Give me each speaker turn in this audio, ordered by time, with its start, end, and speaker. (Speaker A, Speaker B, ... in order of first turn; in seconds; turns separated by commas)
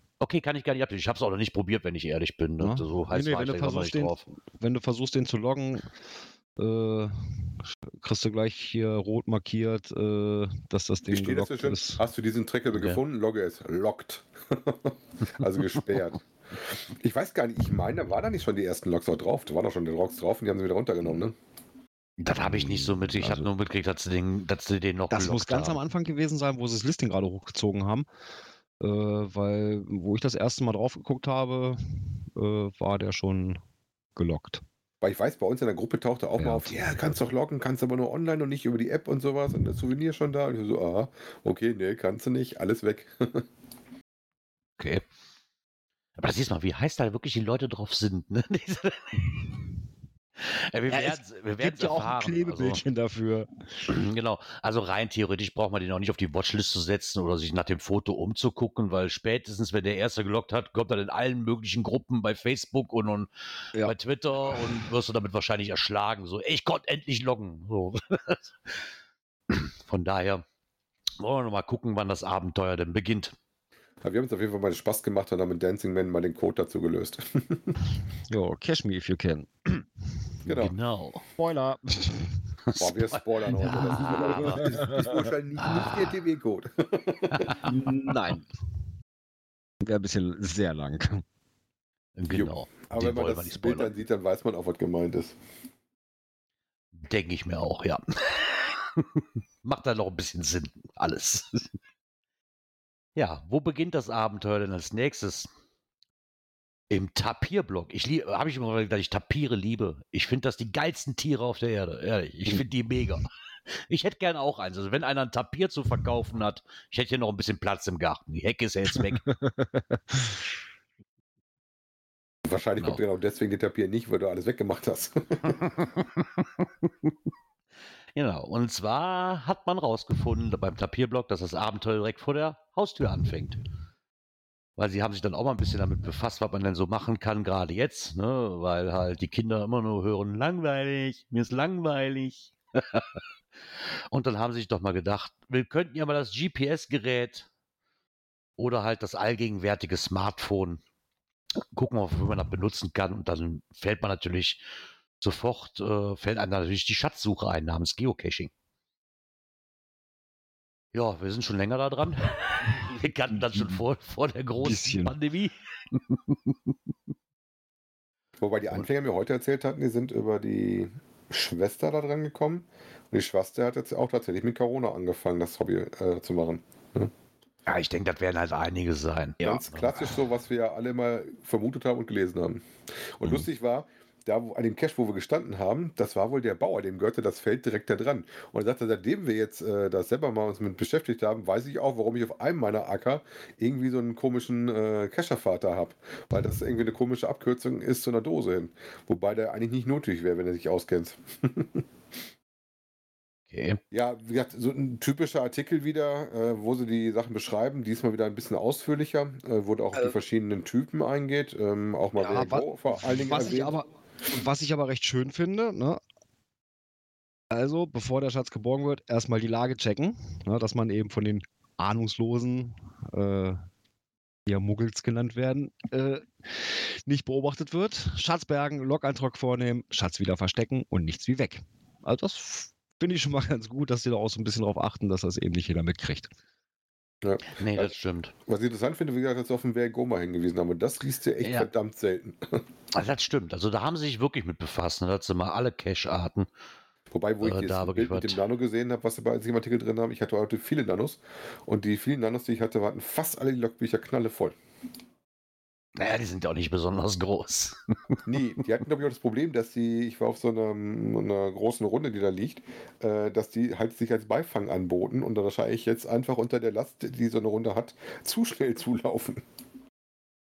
Speaker A: 0.2-4.2, Speaker B: 2.6-5.9, Speaker B: 6.6-12.0, Speaker C: 11.1-16.2, Speaker A: 12.7-13.0, Speaker C: 17.0-21.3, Speaker A: 22.2-25.8, Speaker B: 22.4-23.5, Speaker B: 25.1-28.1, Speaker B: 28.8-33.6, Speaker B: 34.2-34.6, Speaker C: 35.0-43.5, Speaker A: 36.4-37.1, Speaker A: 44.8-45.0, Speaker A: 46.2-49.3, Speaker A: 50.4-52.8, Speaker B: 50.9-53.5, Speaker A: 53.9-63.3, Speaker A: 63.8-68.7, Speaker A: 69.5-70.4, Speaker A: 71.2-73.3, Speaker C: 74.0-77.8, Speaker B: 78.3-79.5, Speaker C: 80.5-80.8, Speaker A: 80.5-81.2, Speaker B: 81.4-82.4, Speaker A: 82.7-84.8, Speaker C: 82.8-87.6, Speaker B: 84.0-85.3, Speaker A: 85.6-86.2, Speaker A: 87.3-87.6, Speaker B: 87.6-88.5, Speaker B: 89.8-91.2, Speaker A: 92.2-93.9, Speaker C: 92.3-95.3, Speaker A: 97.0-101.7, Speaker A: 103.2-105.5, Speaker A: 106.9-113.3, Speaker A: 113.9-119.2, Speaker B: 119.0-120.4, Speaker C: 122.5-125.6, Speaker A: 125.6-127.1, Speaker A: 128.2-133.6, Speaker A: 134.8-143.2, Speaker A: 144.1-147.5, Speaker A: 148.6-150.8, Speaker A: 151.7-154.6, Speaker A: 155.2-158.5, Speaker A: 160.9-166.6, Speaker B: 164.6-165.1, Speaker C: 168.4-177.1, Speaker A: 177.7-180.1, Speaker C: 179.4-201.8, Speaker A: 203.5-203.8, Speaker C: 203.9-213.8, Speaker B: 212.2-216.0, Speaker B: 217.5-223.6, Speaker B: 224.5-236.3, Speaker C: 237.2-237.9, Speaker A: 237.6-238.3, Speaker C: 238.5-242.6, Speaker A: 241.4-241.7, Speaker A: 242.9-246.5, Speaker C: 247.1-254.6, Speaker A: 247.4-248.4, Speaker A: 256.0-258.2, Speaker C: 258.2-269.4